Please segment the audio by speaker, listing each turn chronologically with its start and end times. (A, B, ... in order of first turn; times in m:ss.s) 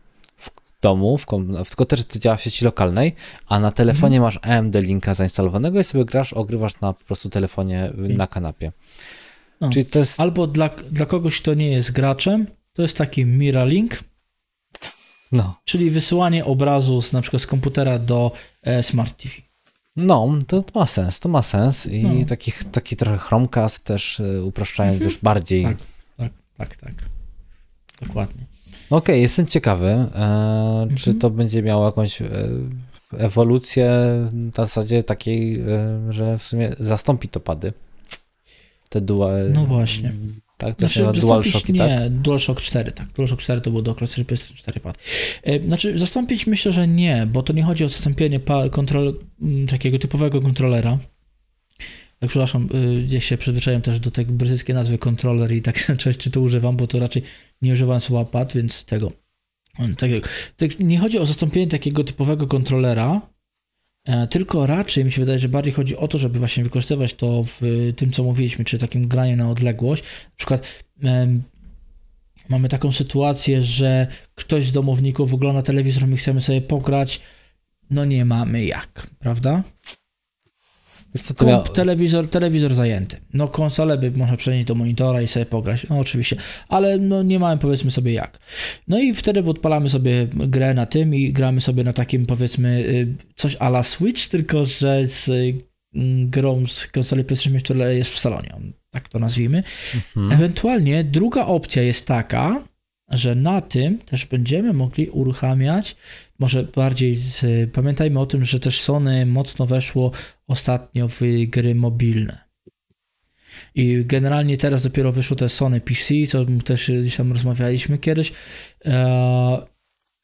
0:00.4-0:08.7 A
0:09.6-0:14.0 B
0:09.7-0:10.2 A
0:15.3-0:15.6 A
0:15.6-0:19.4 B
0:20.0-0:25.8 A
0:22.0-0:22.3 B
0:25.6-0:27.1 B
0:28.0-0:28.5 B
0:28.9-0:37.8 A
0:30.9-0:31.2 B
0:38.9-0:42.0 A
0:39.5-0:40.2 B
0:40.8-0:51.0 B
0:52.2-0:59.1 B
0:59.8-1:03.3 B
1:04.1-1:11.5 B
1:12.5-1:17.2 B
1:17.9-1:19.6 B
1:21.1-1:21.8 A
1:21.4-1:39.6 B
1:39.9-1:40.4 A
1:40.3-1:52.4 B
1:53.7-1:59.6 B